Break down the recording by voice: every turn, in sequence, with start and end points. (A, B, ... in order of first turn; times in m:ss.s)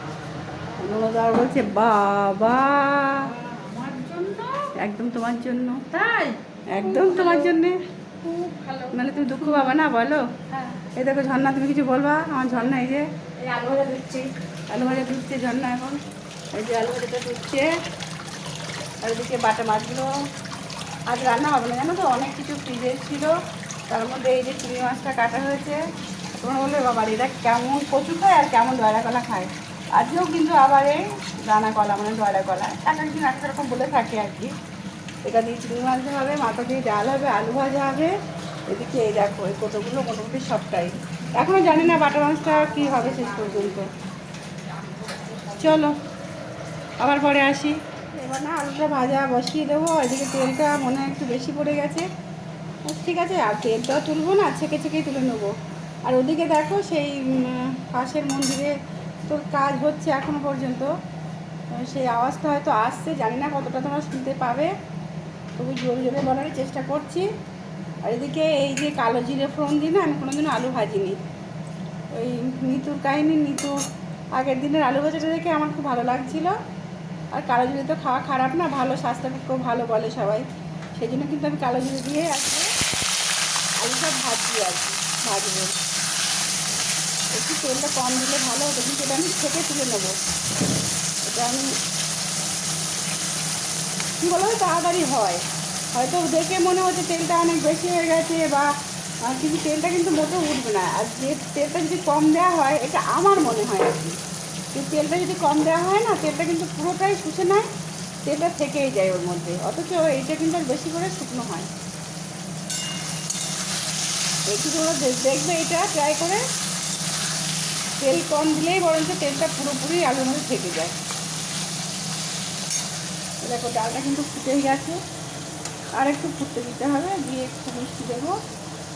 0:00.8-0:03.3 A
0:03.4-0:04.7 B
0:04.8-0:05.9 A
0:05.9-0:07.6 B
0:06.7-0:07.8 A
0:08.2-0:09.7 B
0:08.9-0:10.2 A
0:10.5-0:10.8 B
0:11.0-0:13.1 A
0:13.4-0:14.3 B
0:14.7-0:16.0 A
0:16.5-0:17.7 A
0:19.0-0:20.1 A
0:21.1-0:23.3 A
0:23.9-0:25.8 A
0:26.4-0:34.5 A
0:35.2-0:38.1 A
0:38.7-0:43.9 A
0:41.7-0:43.7 B
0:44.7-0:45.6 B
0:45.6-0:46.0 A
0:47.0-0:52.0 A
0:52.9-0:55.5 A
0:56.1-0:58.7 A
0:59.3-1:00.9 A
1:01.7-1:04.7 A
1:05.6-1:07.3 A
1:08.0-1:11.2 A
1:12.1-1:13.8 A
1:14.4-1:16.6 A
1:17.3-1:22.7 A
1:23.8-1:25.7 A
1:27.3-1:30.2 A
1:31.2-1:31.7 A
1:34.2-1:35.4 A
1:35.9-1:38.7 A
1:39.3-1:44.2 A
1:44.7-1:47.7 A
1:48.2-1:51.7 A
1:54.5-1:56.4 A
1:58.0-2:01.0 A
2:03.4-2:05.0 A
2:06.0-2:08.3 A